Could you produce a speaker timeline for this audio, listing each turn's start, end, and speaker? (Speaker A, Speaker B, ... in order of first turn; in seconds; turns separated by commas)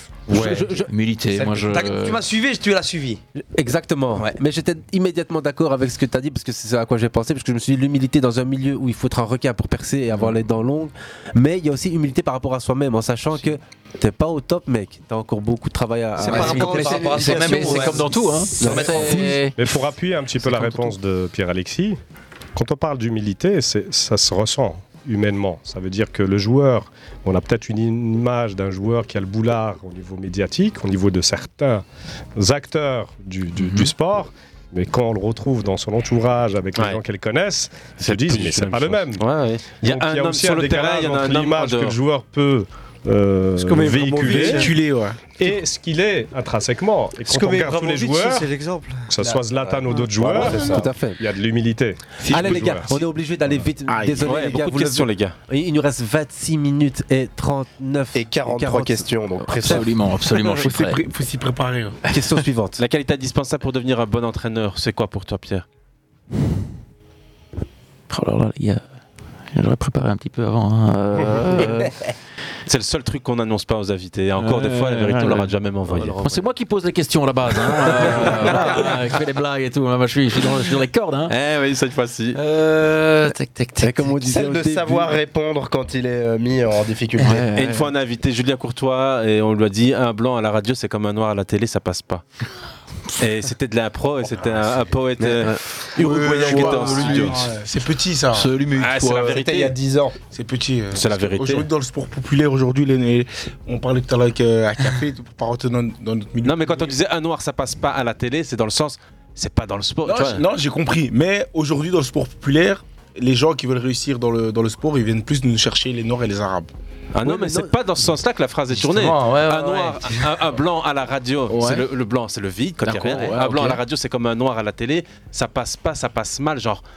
Speaker A: 0.3-2.2, Speaker B: 0.3-0.8, Speaker C: 0.3-0.6, Speaker D: 1.3-3.2, Speaker B: 3.4-17.4, Speaker A: 16.2-19.8, Speaker D: 16.2-19.3, Speaker B: 18.6-19.4, Speaker E: 19.6-22.0, Speaker A: 20.4-20.9, Speaker E: 22.6-31.8, Speaker E: 32.4-44.7, Speaker A: 33.5-33.9, Speaker C: 36.8-37.0, Speaker C: 38.0-42.0, Speaker F: 43.5-44.8, Speaker G: 44.5-45.3, Speaker E: 45.4-48.5, Speaker F: 47.2-50.5, Speaker E: 49.1-52.9, Speaker H: 49.6-50.9, Speaker B: 50.7-51.2, Speaker B: 52.2-59.8, Speaker G: 53.9-54.3, Speaker C: 54.2-55.3, Speaker H: 58.1-59.9, Speaker A: 59.5-61.0, Speaker G: 60.2-62.0, Speaker B: 62.1-62.8, Speaker C: 62.8-65.6, Speaker A: 68.1-68.8, Speaker A: 69.5-72.0, Speaker C: 72.7-76.4, Speaker A: 74.4-81.3, Speaker C: 77.8-78.9, Speaker C: 81.3-82.4, Speaker A: 82.3-84.1, Speaker B: 83.8-85.2, Speaker H: 84.2-87.5, Speaker A: 87.2-87.9, Speaker C: 87.5-92.2, Speaker C: 93.2-97.5, Speaker B: 95.2-95.6, Speaker G: 96.0-98.6, Speaker A: 96.2-97.5, Speaker A: 98.3-99.4, Speaker C: 98.8-99.8, Speaker H: 99.1-100.2, Speaker G: 100.3-107.0, Speaker C: 100.9-101.7, Speaker C: 106.4-110.4, Speaker G: 110.0-116.7, Speaker C: 117.1-126.8, Speaker B: 117.2-117.7, Speaker A: 118.7-120.3, Speaker A: 121.5-121.8, Speaker A: 122.8-123.8